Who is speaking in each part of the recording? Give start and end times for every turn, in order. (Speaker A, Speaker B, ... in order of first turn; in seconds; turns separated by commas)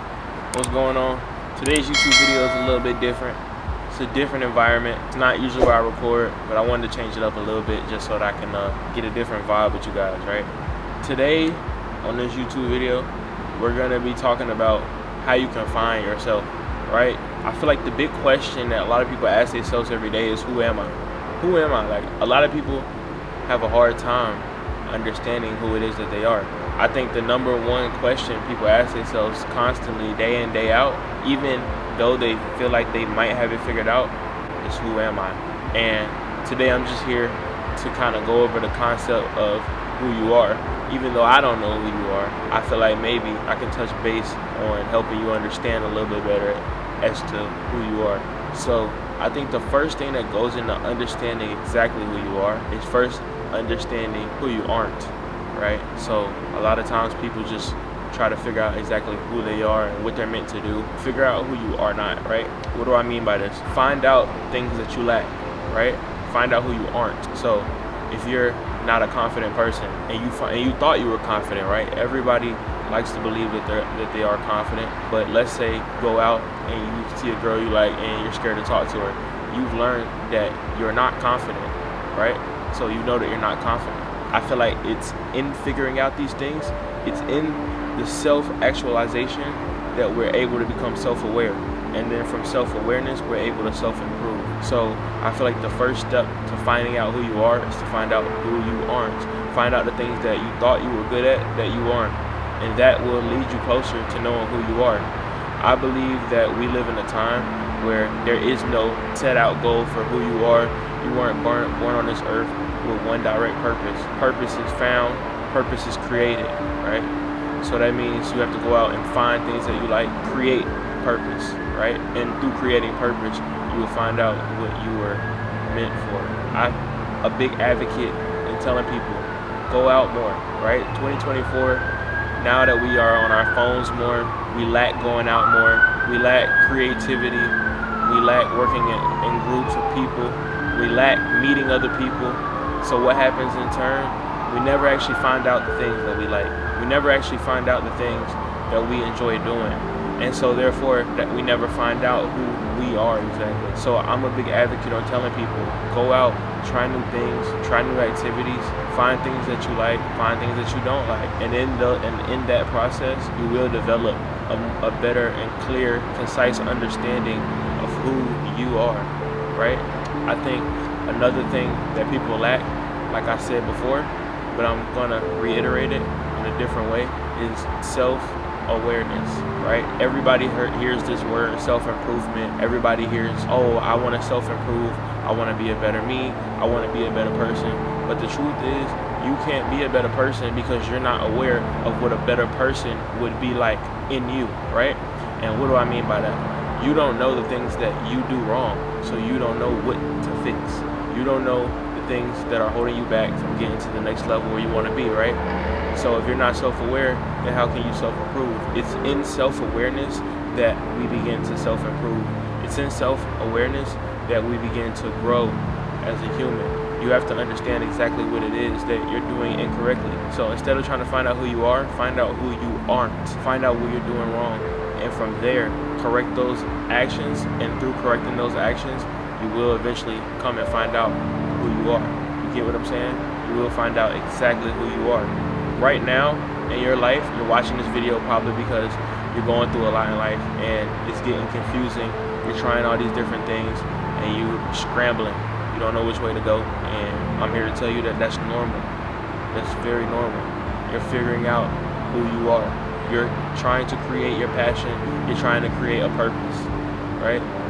Speaker A: 0.5-22.9, Speaker A: 23.4-105.1, Speaker A: 105.6-131.8, Speaker A: 132.4-205.4, Speaker A: 205.9-248.9, Speaker A: 249.5-257.5